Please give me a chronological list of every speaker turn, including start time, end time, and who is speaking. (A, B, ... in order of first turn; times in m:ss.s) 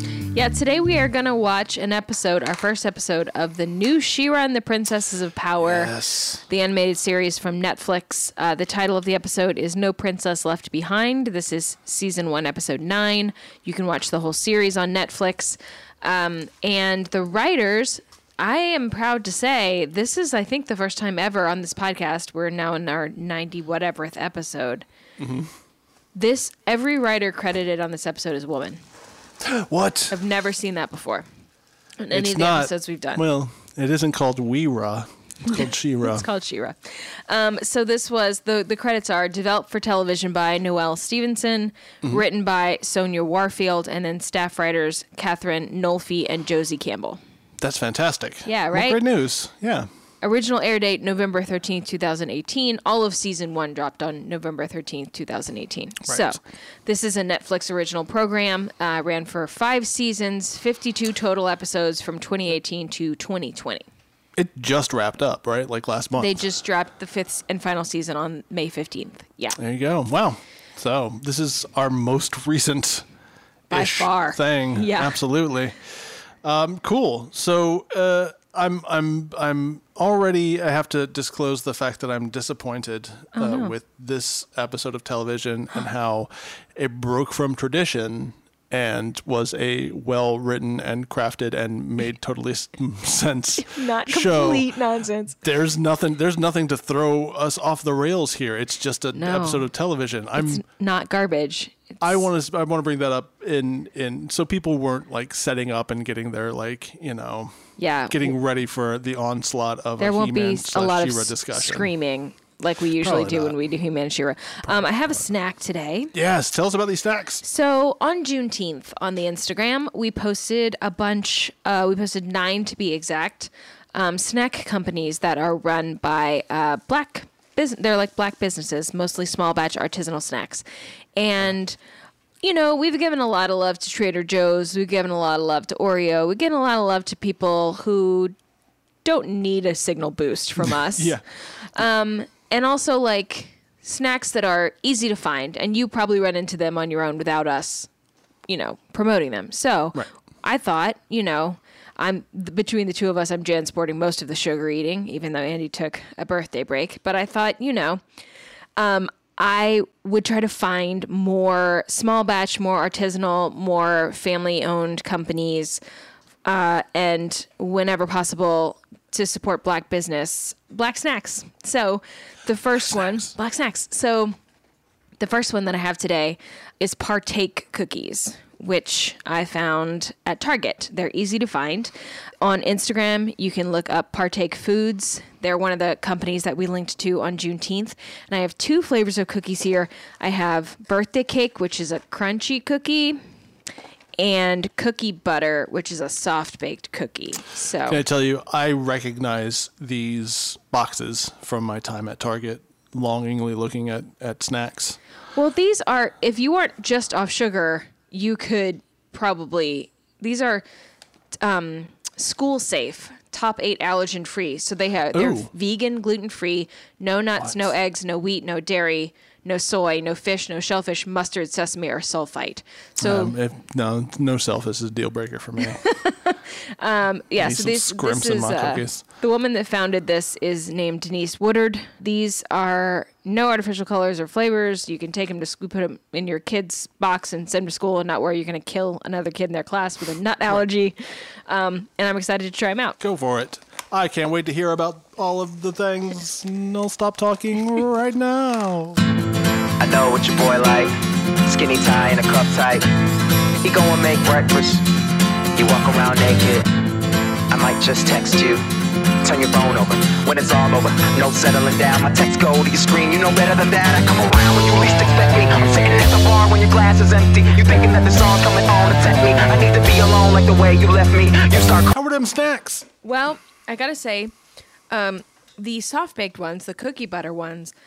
0:00.3-0:05.9 A
0:05.6-0:06.4 B
0:06.5-0:24.8 A
0:25.2-0:25.5 B
0:26.2-0:28.8 A
0:29.4-0:30.2 B
0:30.1-0:31.3 A
0:32.0-0:33.2 A
0:32.1-0:36.2 B
0:35.4-0:47.2 A
0:47.6-0:49.9 B
0:48.4-0:49.0 A
0:50.2-1:03.8 A
0:56.1-0:56.3 B
1:04.4-1:06.4 B
1:06.2-1:09.6 A
1:09.6-1:13.1 B
1:13.7-1:15.2 A
1:13.7-1:34.7 B
1:23.3-1:23.7 A
1:33.6-1:35.4 A
1:35.4-1:40.6 B
1:39.1-1:39.6 A
1:40.4-1:42.1 A
1:42.0-1:51.9 B
1:47.8-1:48.3 A
1:50.0-1:56.1 A
1:53.0-1:53.6 B
1:56.1-1:57.4 B
1:57.4-2:10.6 A
2:11.2-2:11.8 A
2:12.4-2:18.3 A
2:19.0-2:21.2 A
2:20.6-2:21.2 B
2:21.7-2:27.9 A
2:28.5-2:38.0 A
2:38.8-2:45.8 A
2:46.4-2:54.3 A
2:55.2-3:13.2 A
3:14.2-3:18.0 A
3:17.9-3:25.0 B
3:25.3-3:30.6 A
3:31.4-3:43.3 A
3:35.1-3:35.5 B
3:43.0-3:45.8 B
3:45.6-4:01.0 A
3:47.4-3:49.0 B
4:01.5-4:03.0 A
4:03.0-4:09.0 B
4:09.8-4:10.9 C
4:11.4-4:12.8 C
4:13.6-4:14.8 C
4:15.5-4:16.7 C
4:17.5-4:18.6 C
4:19.2-4:31.9 C
4:31.9-4:32.9 B
4:33.0-4:34.3 A
4:34.9-4:37.7 A